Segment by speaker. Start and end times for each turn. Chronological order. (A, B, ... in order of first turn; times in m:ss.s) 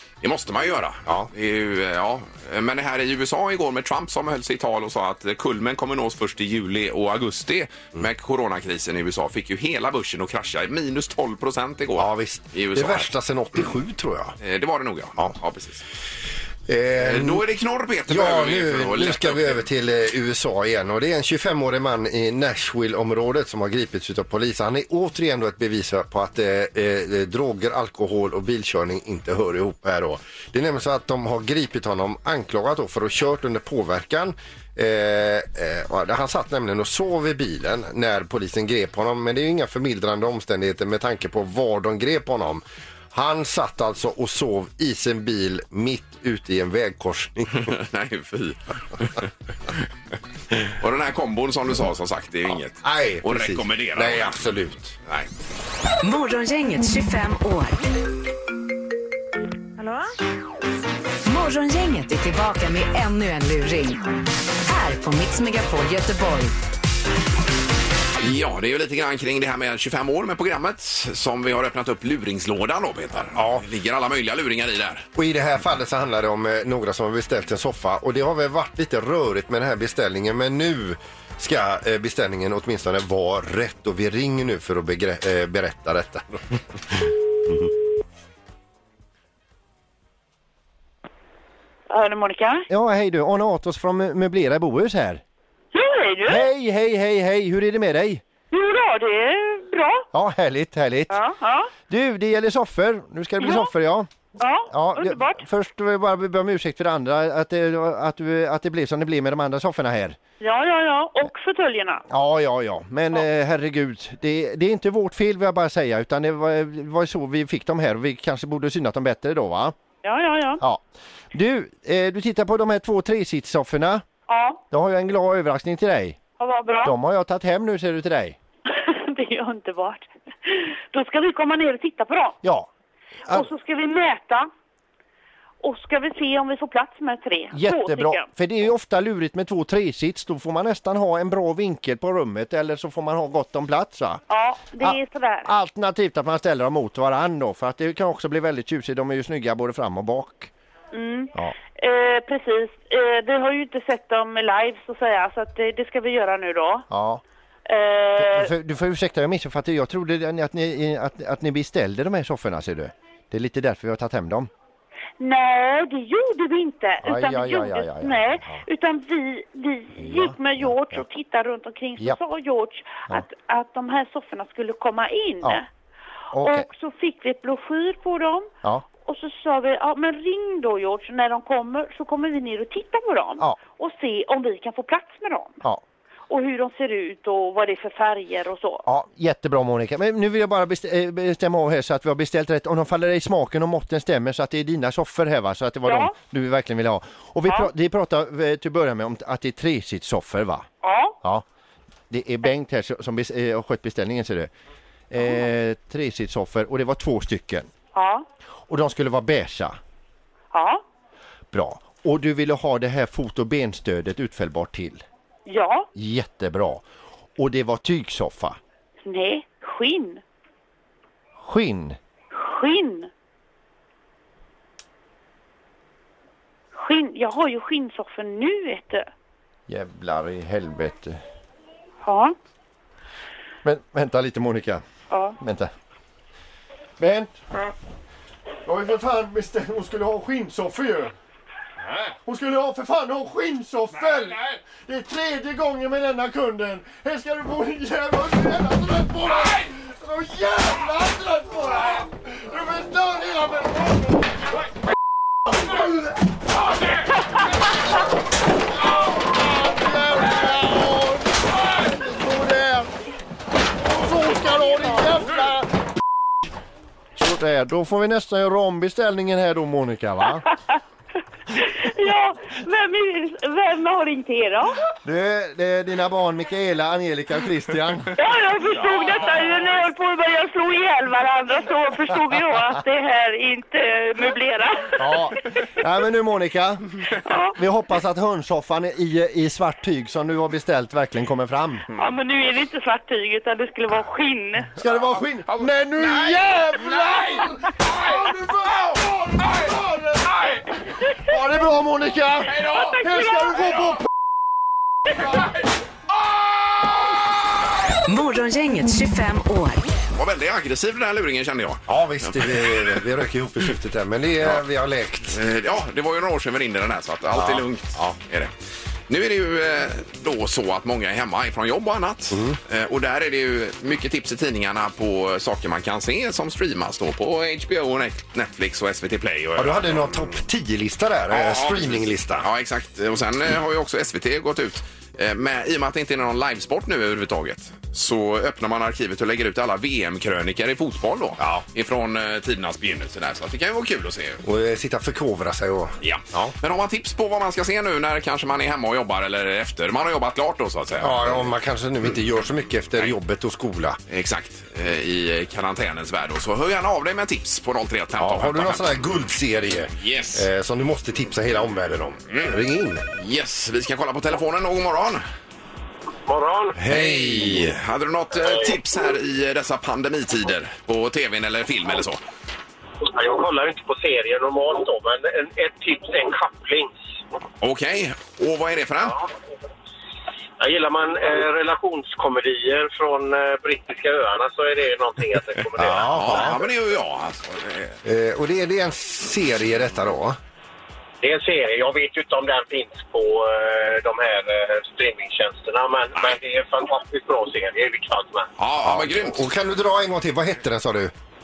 0:00.2-0:13.1 A
0:12.0-0:14.4 B
0:14.4-0:15.8 A
0:16.7-0:17.4 B
0:17.0-0:19.6 A
0:18.1-0:47.7 B
0:47.6-0:49.3 A
0:50.6-0:54.4 A
0:52.8-0:55.0 B
0:56.0-0:57.8 C
1:01.2-1:04.0 C
1:04.6-1:06.5 C
1:08.2-1:15.0 A
1:13.3-1:13.6 B
1:15.1-1:26.6 B
1:31.9-1:32.7 D
1:32.7-1:35.2 E
1:35.7-1:36.4 D
1:36.2-1:38.2 E
1:38.5-1:40.1 D
1:40.1-1:41.2 E
1:41.1-1:41.7 D
1:41.9-1:44.1 E
1:43.4-1:43.7 D
1:44.4-1:45.4 D
1:44.7-1:50.2 E
1:50.4-1:52.0 D
1:52.1-1:59.7 E
2:00.0-2:00.6 D
2:01.3-2:04.0 E
2:04.3-2:04.6 D
2:04.7-2:06.2 E
2:06.4-2:06.9 D
2:06.8-2:08.4 E
2:08.7-2:12.4 D
2:12.4-2:12.7 E
2:13.3-2:14.5 D
2:15.6-2:18.3 D
2:17.5-2:24.2 E
2:24.3-2:25.5 D
2:24.8-2:30.5 E
2:30.9-2:36.9 D
2:36.9-2:37.2 E
2:37.7-2:38.5 D
2:38.2-2:44.5 E
2:45.2-2:55.6 D
2:47.0-2:48.6 E
2:50.0-2:51.0 E
2:56.3-2:56.7 E
2:56.4-3:05.6 D
3:06.3-3:08.8 D
3:08.8-3:20.6 E
3:15.8-3:16.1 D
3:20.8-3:21.2 D
3:22.1-3:24.5 E
3:25.1-3:27.7 E
3:27.9-3:28.2 D
3:28.7-3:29.8 E
3:30.5-3:30.8 D
3:31.5-3:35.0 E
3:35.5-3:35.9 D
3:35.9-3:36.8 E
3:37.4-3:38.6 E
3:39.0-3:40.2 D
3:41.4-3:42.0 E
3:42.3-3:43.1 D
3:46.7-3:49.1 D
3:49.7-3:51.2 E
3:52.0-3:52.3 D
3:53.6-3:54.8 E
3:55.1-3:55.4 D
3:55.4-3:55.7 E
3:57.0-3:57.4 E
3:58.6-4:01.1 E
4:02.0-4:14.4 E
4:15.5-4:16.1 E
4:19.1-4:22.9 E
4:23.9-4:25.7 E
4:27.2-4:30.4 E
4:31.5-4:34.8 D
4:35.0-4:38.1 E
4:38.2-4:45.2 D
4:45.0-4:46.8 E
4:47.2-4:47.6 D
4:47.5-4:51.9 E
4:52.0-4:54.7 D
4:54.8-5:00.4 E
4:55.5-4:57.4 A
5:01.2-5:04.0 E
5:02.5-5:03.0 A
5:08.0-5:09.8 C
5:10.1-5:13.0 A
5:11.9-5:15.4 B
5:15.3-5:18.5 A
5:17.3-5:18.2 B
5:19.1-5:30.4 A
5:22.3-5:22.6 B
5:29.6-5:32.5 B
5:31.3-5:44.4 A
5:41.4-5:41.6 B
5:44.4-5:46.5 B
5:46.0-5:51.5 A
5:51.0-5:54.0 B
5:54.1-5:59.0 A
5:58.2-6:03.0 B
6:00.0-6:00.4 A
6:02.3-6:02.6 A
6:03.1-6:05.2 A
6:06.3-6:06.8 F
6:06.7-6:07.8 B
6:06.9-6:12.2 A
6:08.4-6:08.7 F
6:13.0-6:16.9 F
6:17.6-6:19.2 A
6:20.6-6:26.6 F
6:25.8-6:26.6 B
6:25.9-6:28.0 A
6:28.0-6:30.4 B
6:31.2-6:38.5 F
6:38.6-6:39.4 A
6:38.8-6:41.1 B